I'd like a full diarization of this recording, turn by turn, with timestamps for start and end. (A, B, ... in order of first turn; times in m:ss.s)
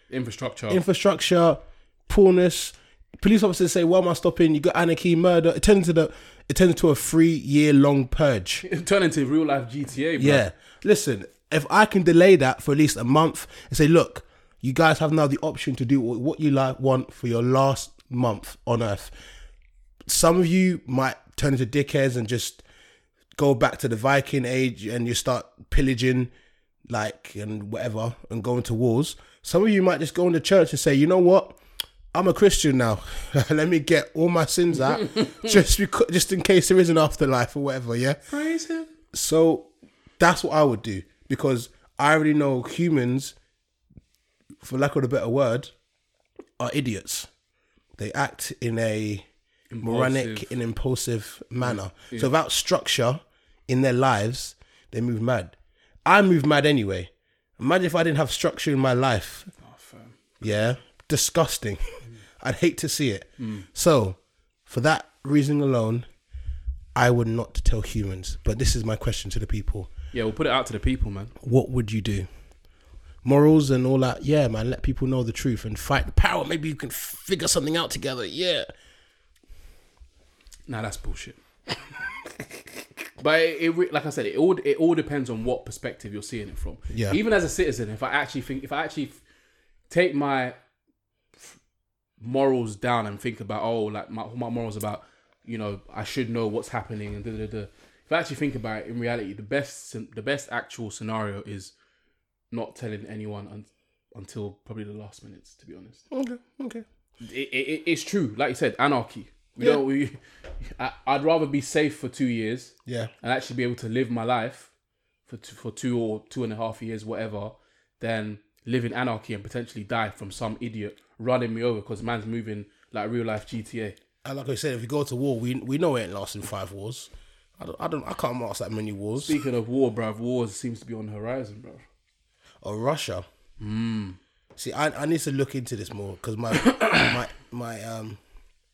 0:00.1-0:00.8 A
0:00.7-0:08.6 B
0:08.6-0:10.4 A
0:10.2-0:19.2 B
0:20.1-0:22.6 B
0:23.4-0:26.3 B
0:26.9-0:31.6 B
0:32.1-0:38.2 B
0:38.3-0:38.9 A
0:39.1-0:43.4 B
0:44.6-0:45.7 B
0:46.6-0:47.3 B
0:48.0-0:49.3 B
0:49.7-0:50.5 A
0:49.8-0:59.5 B
0:51.6-0:52.3 A
0:59.6-1:00.2 A
1:00.4-1:06.1 B
1:03.4-1:03.7 A
1:07.0-1:09.9 B
1:10.1-1:11.4 A
1:11.4-1:12.3 B
1:13.2-1:18.7 B
1:20.7-1:21.4 A
1:23.2-1:29.2 A
1:26.9-1:27.2 B
1:29.9-1:30.6 A
1:32.2-1:41.7 A
1:42.5-1:46.0 A
1:46.1-1:46.8 B
1:47.2-1:54.7 A
1:49.6-1:49.8 B
1:52.8-1:53.1 B
1:55.3-2:04.0 A
2:04.2-2:09.4 B
2:09.2-2:11.9 A
2:12.6-2:13.3 B
2:13.6-2:14.2 A
2:14.6-2:18.2 B
2:16.6-2:17.1 A